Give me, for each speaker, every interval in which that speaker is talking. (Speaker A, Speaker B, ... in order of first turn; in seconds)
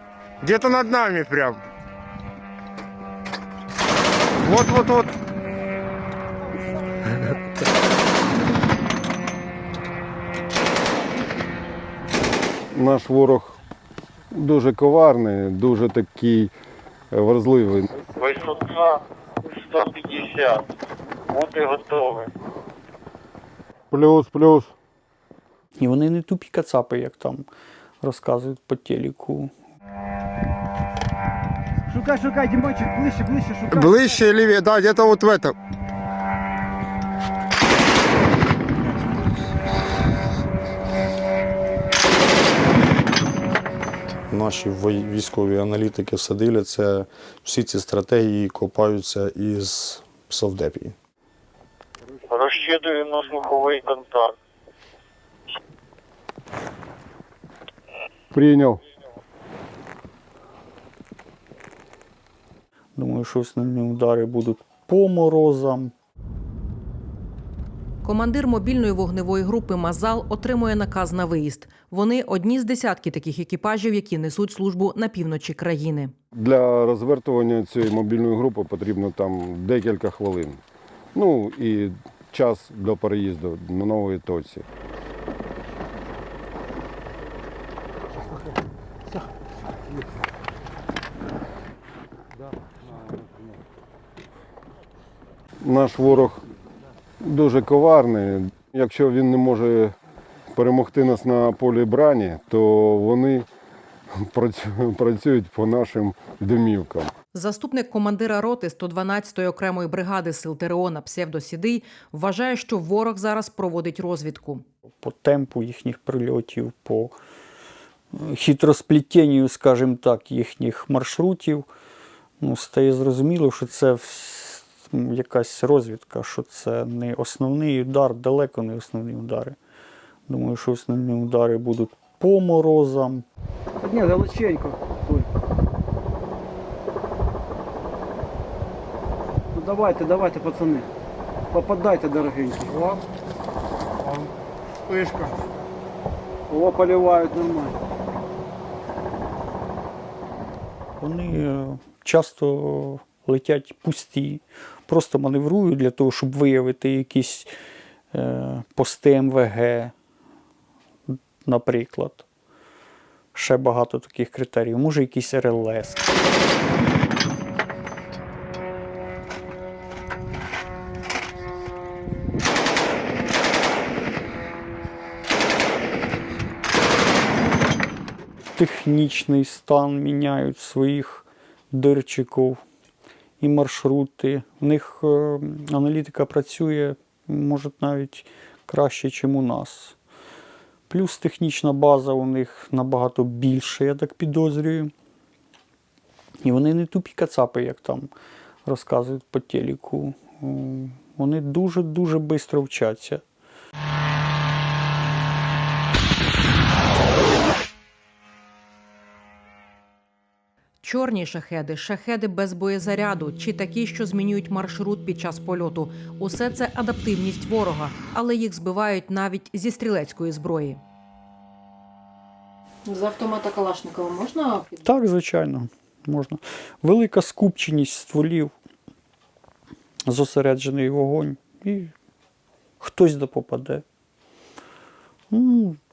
Speaker A: 0.4-1.6, 4.4-5.1, 33.7-35.5
Speaker B: 12.7-13.6, 14.3-16.5, 17.1-17.9, 23.9-24.7, 58.3-58.8, 76.3-80.6, 81.2-84.7, 95.6-96.5, 97.2-99.9, 100.5-103.5, 104.2-107.1
Speaker C: 18.2-20.6, 21.3-22.3, 52.3-54.4
Speaker D: 25.8-27.5, 28.0-29.5, 63.0-65.9, 115.0-117.2, 118.1-121.7, 122.4-129.6, 130.3-133.2, 151.0-157.5, 158.1-159.9, 161.1-162.3, 163.3-166.1, 178.6-182.6, 183.4-190.0, 190.9-194.9, 196.4-198.1, 198.7-203.2, 224.8-228.5, 230.1-231.9, 232.8-233.8, 235.3-235.8
Speaker E: 31.9-34.2, 133.8-135.3, 139.5-140.9, 141.5-143.0, 144.9-145.4, 146.5-147.8
Speaker F: 44.3-51.0
Speaker G: 68.0-76.1, 107.3-114.7, 210.8-220.8, 222.8-224.8